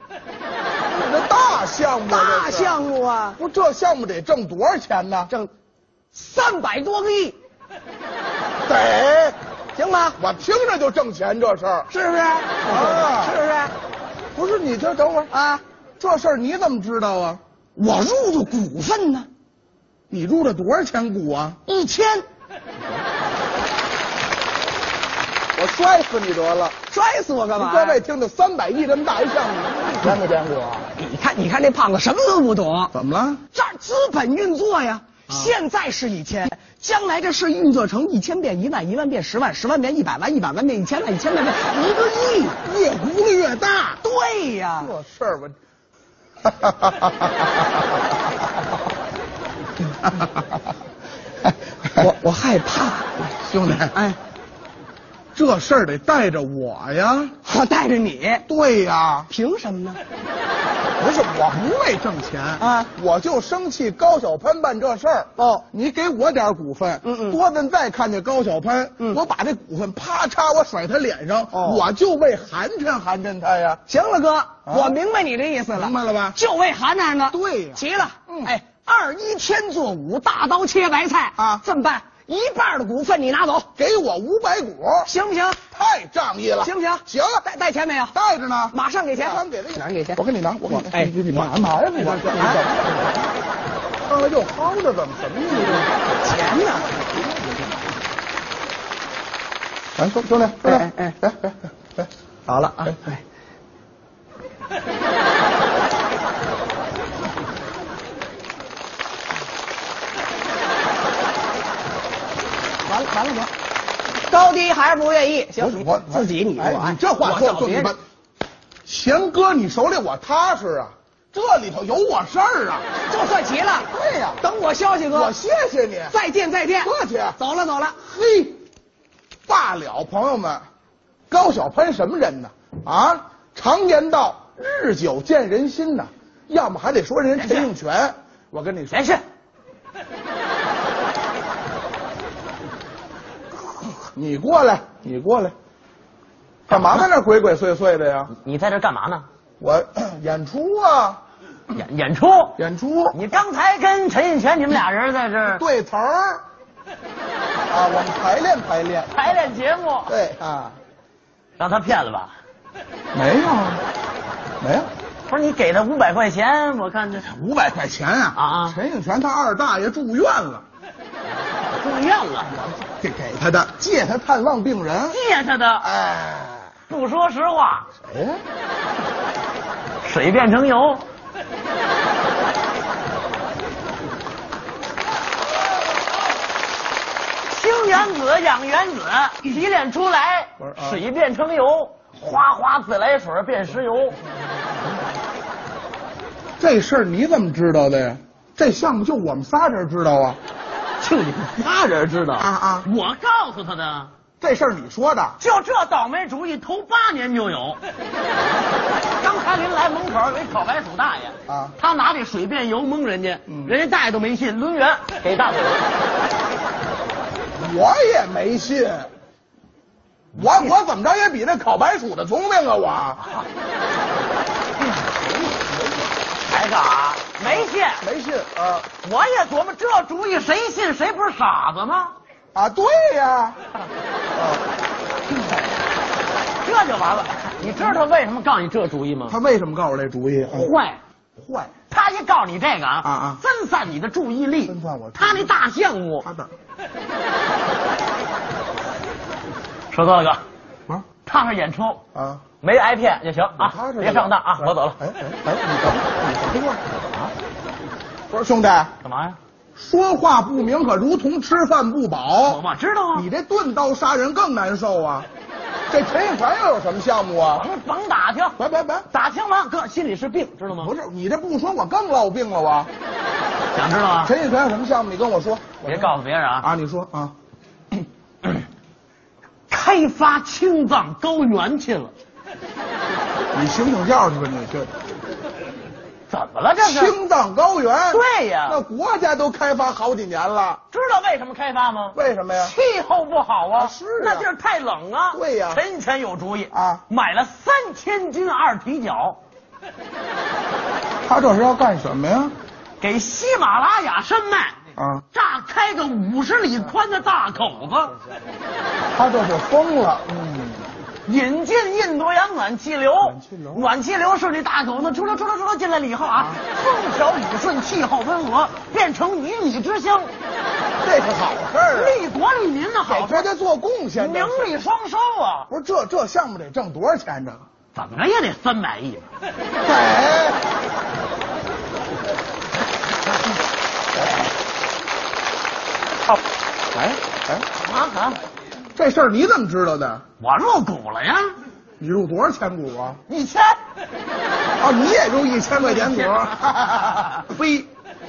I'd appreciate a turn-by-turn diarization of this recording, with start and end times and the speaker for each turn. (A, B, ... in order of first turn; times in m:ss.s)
0:00.9-0:02.8 A
0:02.1-0:03.4 B
0:03.4-0:05.3 A
0:06.1-0:07.4 B
0:08.7-0:09.4 A
0:09.8-0:10.2 B
0:10.2-0:11.9 A
0:11.9-0:13.7 B
0:12.7-0:13.4 A
0:14.4-0:15.3 A
0:15.3-0:15.6 B
0:16.0-0:17.4 A
0:17.8-0:19.3 B
0:20.1-0:21.6 A
0:21.7-0:22.3 B
0:25.6-0:26.8 A
0:26.9-0:28.0 B
0:27.6-0:30.9 A
0:31.0-0:32.9 B
0:32.9-0:33.4 A
0:33.5-0:42.6 B
0:42.6-0:44.0 A
0:44.0-0:44.9 B
0:44.8-0:45.6 A
0:46.4-0:47.4 A
0:52.0-0:53.3 B
0:53.4-0:54.0 A
0:53.9-0:54.2 B
0:55.4-0:57.3 A
0:57.4-0:58.4 B
0:58.5-0:59.3 A
0:59.3-1:00.0 B
1:01.0-1:13.8 A
1:02.6-1:02.9 B
1:05.4-1:05.6 B
1:07.0-1:07.4 B
1:11.5-1:11.8 B
1:13.9-1:23.7 B
1:14.7-1:15.0 A
1:15.8-1:16.4 A
1:17.3-1:18.5 A
1:21.4-1:21.6 A
1:23.8-1:25.1 A
1:25.0-1:25.6 B
1:25.7-1:27.4 A
1:26.6-1:28.1 B
1:28.1-1:33.3 A
1:28.7-1:32.6 B
1:34.0-1:35.9 A
1:35.5-1:37.0 B
1:36.9-1:37.7 A
1:40.0-1:42.1 A
1:40.6-1:41.2 B
1:42.5-1:43.2 B
1:52.8-1:53.5 A
1:54.3-1:58.0 B
1:55.6-1:58.0 A
1:58.9-2:02.9 A
2:03.0-2:03.9 B
2:03.9-2:04.4 A
2:04.4-2:05.4 B
2:05.1-2:06.2 A
2:06.1-2:08.0 B
2:06.8-2:07.4 A
2:08.0-2:08.6 A
2:09.5-2:10.6 A
2:11.3-2:19.1 A
2:17.4-2:17.7 C
2:18.9-2:19.2 C
2:24.0-2:25.5 A
2:26.7-2:27.1 C
2:26.7-2:28.3 A
2:28.3-2:29.3 C
2:29.6-2:31.2 A
2:31.7-2:32.6 C
2:32.6-2:33.2 A
2:33.1-2:35.6 C
2:35.5-2:36.4 A
2:37.7-2:39.1 A
2:39.1-2:40.2 C
2:40.1-2:40.8 A
2:41.6-2:42.4 C
2:43.1-2:43.8 A
2:44.6-2:44.9 A
2:45.3-2:47.3 C
2:47.3-2:50.6 A
2:48.4-2:48.8 C
2:51.6-2:52.5 C
2:52.5-2:55.2 A
2:55.1-2:55.9 C
2:55.8-2:56.7 A
2:56.9-2:57.9 C
2:58.0-2:58.4 A
3:00.0-3:01.1 C
3:07.5-3:14.2 C
3:10.6-3:11.0 A
3:16.6-3:20.4 A
3:21.0-3:24.1 C
3:22.4-3:22.9 A
3:24.4-3:25.4 A
3:25.4-3:27.8 C
3:29.2-3:35.9 C
3:31.5-3:31.7 A
3:37.6-3:39.1 A
3:40.4-3:43.2 A
3:40.4-3:40.7 C
3:45.0-3:46.1 A
3:46.5-3:48.0 C
3:47.4-3:48.9 A
3:49.0-3:52.2 C
3:52.6-3:53.6 A
3:56.6-3:59.4 C
3:59.3-4:00.7 A
4:00.5-4:01.0 C
4:01.4-4:01.7 A
4:01.9-4:06.3 C
4:03.0-4:03.4 A
4:04.7-4:05.5 A
4:06.2-4:06.5 A
4:09.9-4:10.4 C
4:11.3-4:12.0 C
4:12.2-4:12.4 A
4:12.6-4:15.0 C
4:13.6-4:17.0 A
4:18.3-4:18.9 A
4:19.0-4:19.4 C
4:19.8-4:22.6 A
4:22.4-4:23.3 C
4:23.1-4:25.3 A
4:25.9-4:27.6 A
4:27.5-4:28.6 C
4:28.6-4:29.1 A
4:29.1-4:30.9 C
4:30.7-4:32.9 A
4:33.7-4:34.3 C
4:34.2-4:37.3 A
4:35.8-4:36.7 C
4:39.7-4:42.1 C
4:43.5-4:44.9 A
4:46.3-4:47.2 C
4:46.8-4:50.8 A
4:48.1-4:48.8 C
4:50.9-4:59.4 C
4:52.2-4:52.7 A
4:53.8-4:54.5 A
4:55.3-4:55.8 A
4:56.7-4:57.0 A
5:01.2-5:02.6 A
5:03.0-5:04.8 C
5:05.0-5:05.2 A
5:05.3-5:08.1 C
5:09.1-5:10.9 A
5:11.3-5:20.3 C
5:13.2-5:13.9 A
5:21.0-5:22.2 A
5:21.9-5:23.5 C
5:23.1-5:24.7 A
5:24.2-5:25.7 C
5:25.7-5:27.6 A
5:28.0-5:29.3 C
5:29.8-5:30.6 A
5:36.9-5:37.7 A
5:37.8-5:38.4 C
5:39.0-5:40.2 A
5:40.4-5:41.6 C
5:42.0-5:43.2 A
5:43.3-5:43.8 C
5:44.8-5:47.9 A
5:45.9-5:47.4 C